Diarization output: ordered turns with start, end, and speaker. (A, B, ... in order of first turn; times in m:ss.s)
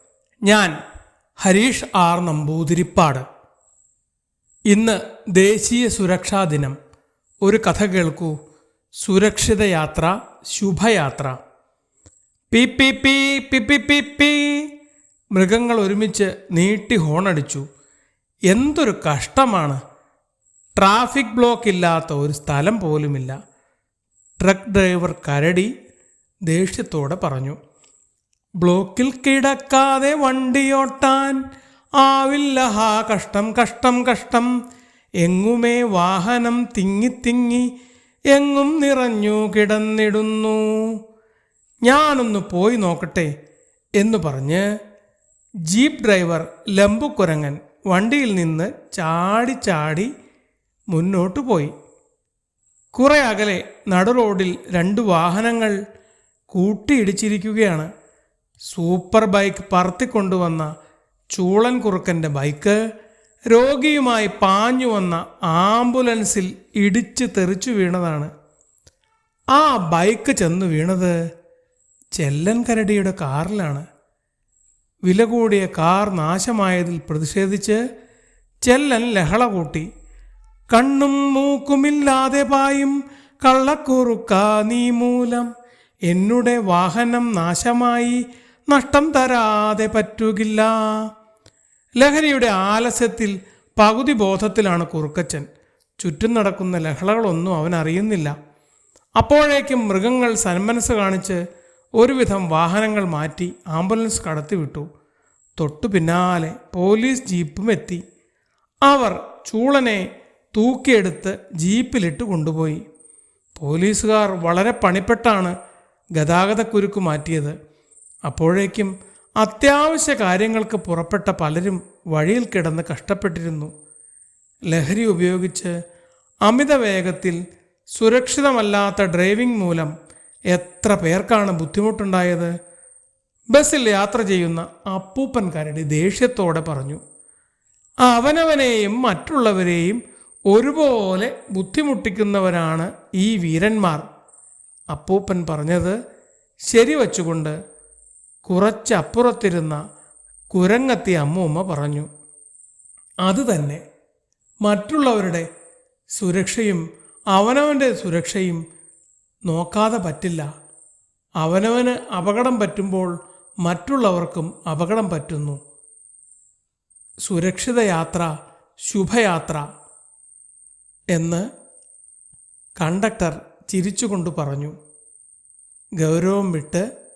0:00.4-0:00.7 A
0:01.4-0:03.2 A
0:04.7-0:06.8 A
0:07.4-0:08.3 A
0:09.0-0:11.4 A
0:12.5-0:14.7 A
0:15.3-0:17.6 A
0:18.5-0:19.8 A
0:20.8-0:23.3 A
0:24.4-0:25.7 A
0:26.4-0:27.6 A
0:28.6-0:31.4 A
0:32.0-0:34.5 A
0:35.2-0:37.7 A
0:38.3-0:41.0 A
0:41.8-0:43.3 A
0:44.0-0:44.6 A
0:45.7-0:50.1 A
0:50.9-0:51.7 A
0:52.9-0:55.8 A
0:56.5-0:57.9 A
0:58.7-1:00.7 A
1:01.3-1:02.8 A
1:03.5-1:08.3 A
1:09.5-1:11.1 A
1:12.1-1:13.8 A
1:15.0-1:17.8 A
1:18.6-1:19.9 A
1:20.7-1:25.5 A
1:26.1-1:31.1 A
1:32.0-1:35.4 A
1:36.0-1:38.3 A
1:39.2-1:41.4 A
1:42.0-1:44.9 A
1:45.6-1:48.0 A
1:48.9-1:52.8 A
1:53.6-1:55.6 A
1:56.2-1:57.6 A
1:58.2-2:03.7 A
2:04.7-2:05.7 A
2:06.4-2:07.4 A
2:07.9-2:09.9 A
2:10.5-2:12.5 A
2:13.5-2:17.0 A
2:18.0-2:24.0 A
2:24.9-2:26.0 A
2:26.7-2:27.5 A
2:28.4-2:29.8 A
2:30.5-2:32.1 A
2:33.2-2:33.8 A
2:34.6-2:35.4 A
2:36.1-2:38.6 A
2:39.5-2:40.4 A
2:41.4-2:45.6 A
2:47.2-2:48.3 A
2:48.8-2:49.6 A
2:51.1-2:51.4 A
2:52.8-2:54.7 A
2:56.0-2:56.8 A